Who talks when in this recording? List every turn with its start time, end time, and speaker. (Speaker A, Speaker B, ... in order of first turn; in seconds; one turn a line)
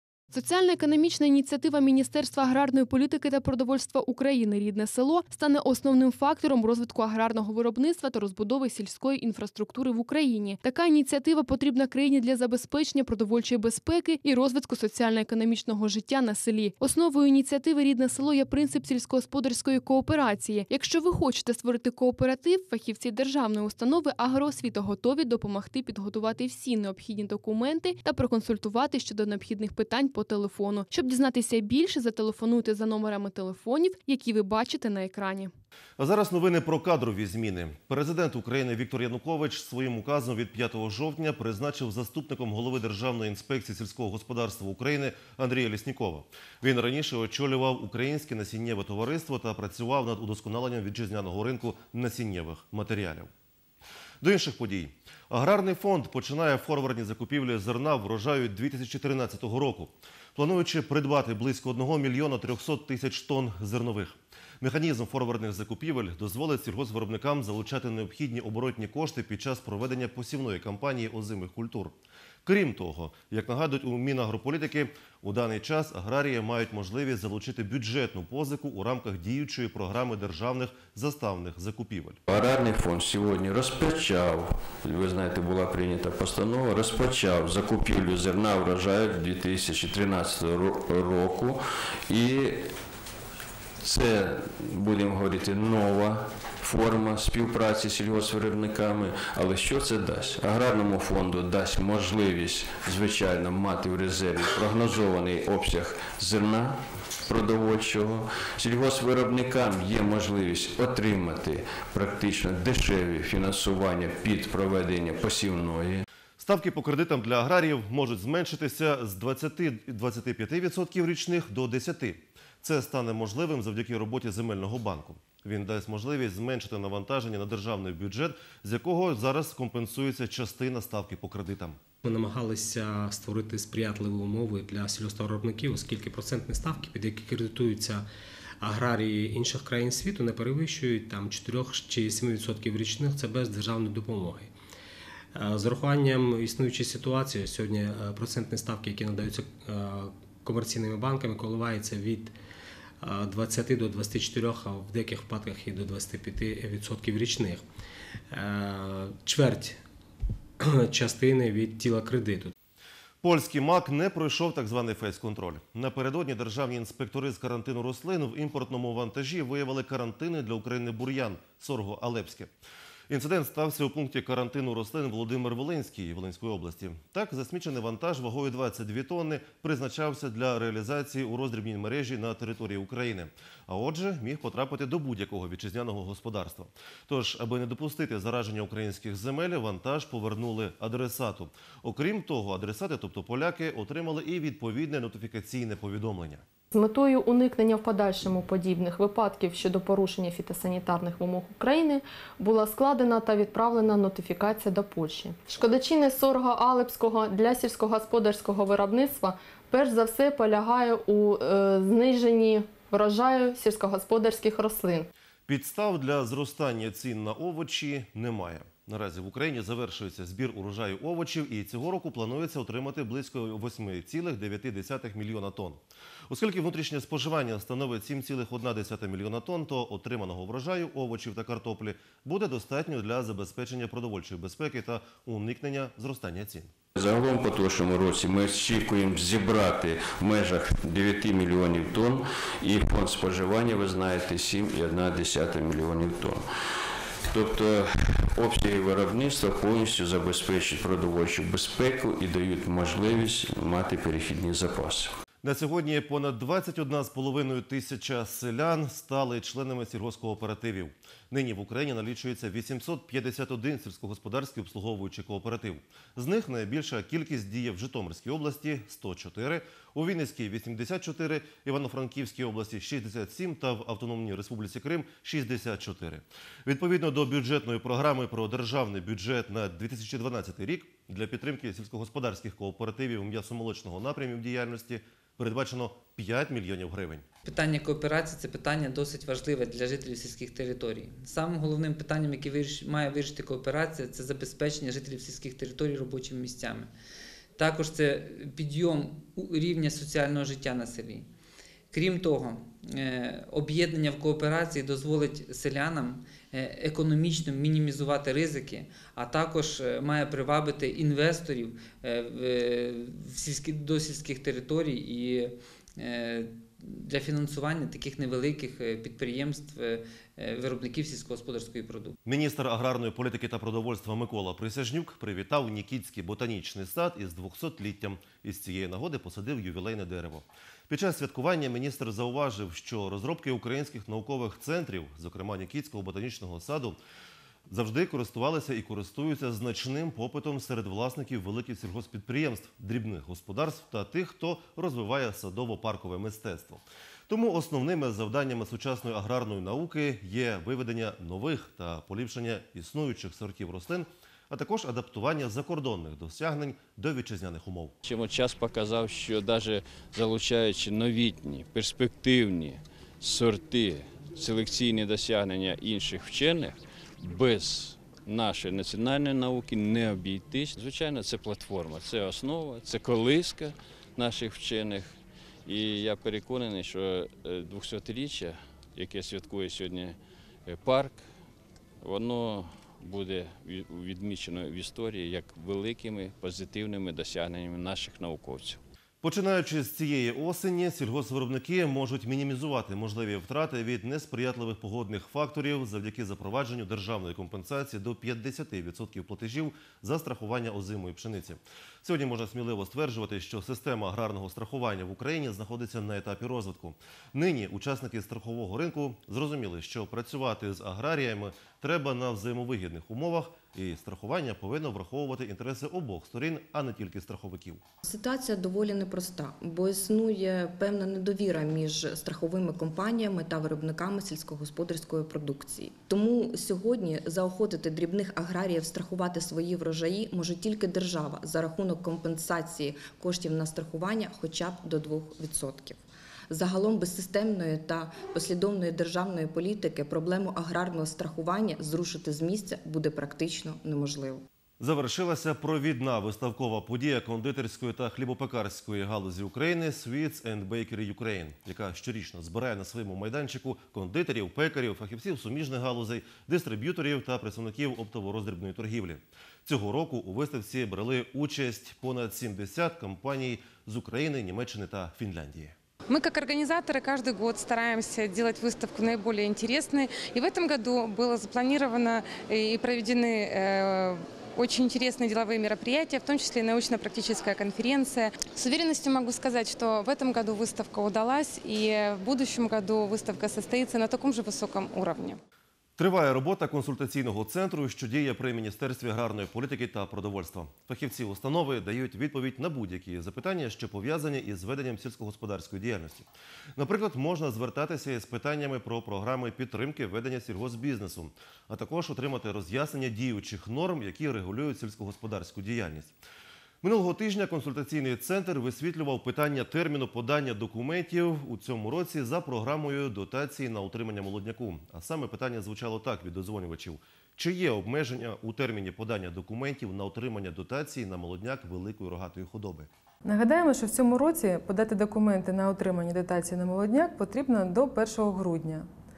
Speaker A: 0.3-35.5
Speaker B: 36.0-53.3
Speaker B: 54.2-82.2
Speaker C: 82.3-92.7
Speaker C: 93.8-116.0
Speaker B: 116.4-131.8
Speaker D: 132.0-138.1
Speaker D: 138.6-144.5
Speaker D: 145.3-152.3
Speaker D: 153.0-157.6
Speaker D: 158.3-159.8
Speaker D: 160.6-162.5
Speaker B: 163.2-172.5
Speaker B: 173.1-196.4
Speaker E: 196.7-215.1
Speaker B: 215.5-236.7
Speaker C: 237.0-246.4
Speaker C: 247.3-255.1
Speaker B: 255.4-287.3
Speaker F: 287.4-296.9
Speaker F: 297.6-301.3
Speaker F: 301.9-322.1
Speaker B: 322.2-337.0
Speaker B: 337.7-357.9
Speaker G: 358.0-381.2
Speaker G: 382.0-388.8
Speaker B: 389.2-417.8
Speaker H: 418.0-444.4
Speaker B: 444.8-465.7
Speaker I: 466.1-485.4
Speaker B: 486.0-506.1
Speaker B: 506.8-522.9
Speaker J: 523.3-528.8